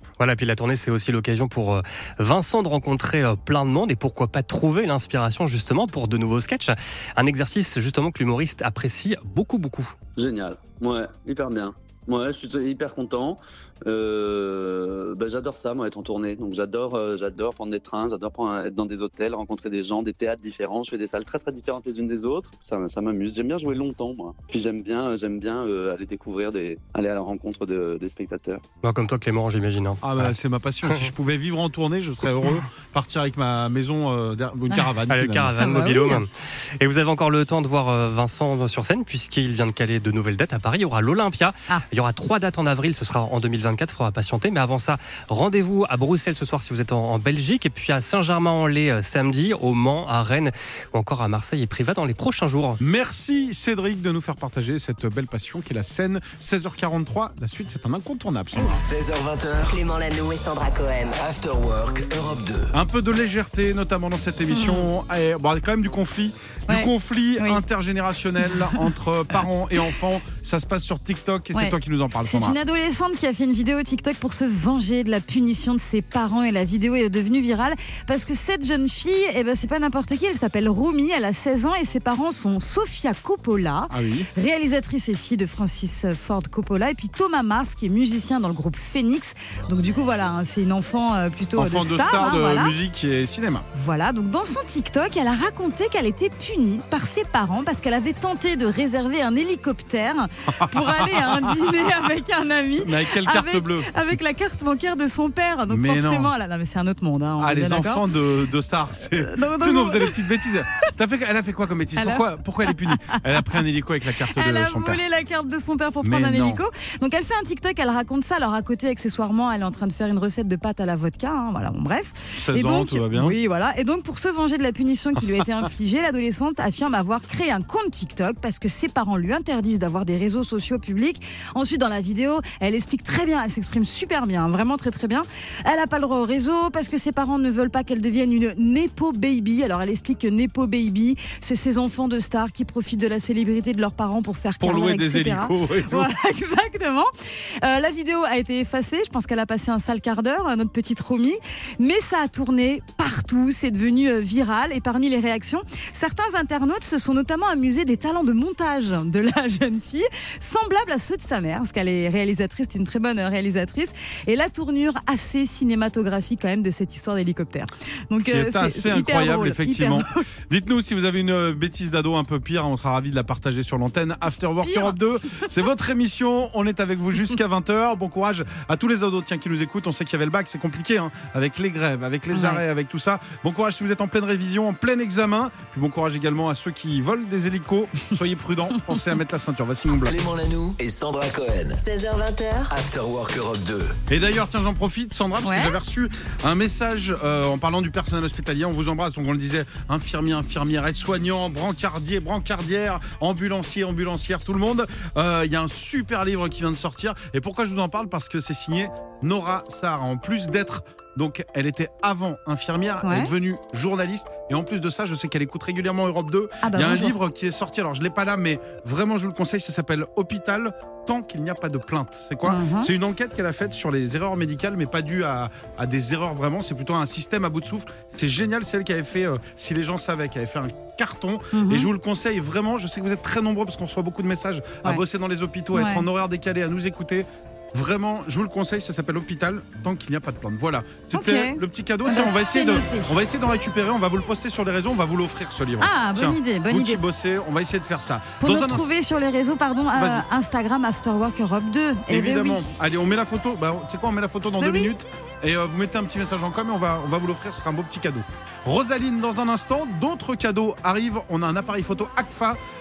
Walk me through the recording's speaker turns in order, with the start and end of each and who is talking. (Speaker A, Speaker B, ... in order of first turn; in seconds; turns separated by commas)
Speaker A: 0.2-9.9, Speaker B: 10.2-28.6, Speaker A: 28.8-30.3, Speaker C: 30.0-35.5, Speaker A: 35.0-52.8, Speaker D: 35.6-36.2, Speaker C: 52.8-58.8, Speaker E: 58.7-59.8, Speaker F: 59.7-61.2, Speaker E: 61.2-62.8, Speaker C: 62.7-72.6, Speaker D: 64.5-64.9, Speaker D: 66.7-67.6, Speaker D: 71.5-92.7, Speaker C: 83.9-84.3, Speaker C: 91.6-93.7, Speaker D: 93.7-108.0, Speaker C: 100.5-101.8, Speaker C: 102.8-103.9, Speaker C: 105.7-106.3, Speaker C: 107.4-115.0, Speaker D: 109.1-110.9, Speaker D: 112.0-113.2, Speaker D: 114.3-147.1, Speaker C: 116.0-116.6, Speaker C: 122.3-123.3, Speaker C: 144.6-146.1, Speaker D: 147.6-170.3, Speaker C: 168.2-190.2, Speaker D: 174.6-175.5, Speaker D: 182.3-182.6, Speaker E: 190.1-191.8, Speaker F: 191.8-192.7, Speaker E: 192.7-193.9, Speaker C: 194.1-248.9, Speaker D: 195.4-195.8, Speaker D: 213.0-213.3, Speaker D: 216.6-217.2, Speaker D: 222.4-222.9, Speaker D: 231.5-231.9, Speaker D: 235.7-236.1, Speaker D: 241.1-243.1, Speaker D: 245.8-247.0, Speaker D: 248.4-252.7, Speaker C: 249.9-250.3, Speaker C: 252.1-262.6, Speaker D: 254.6-254.9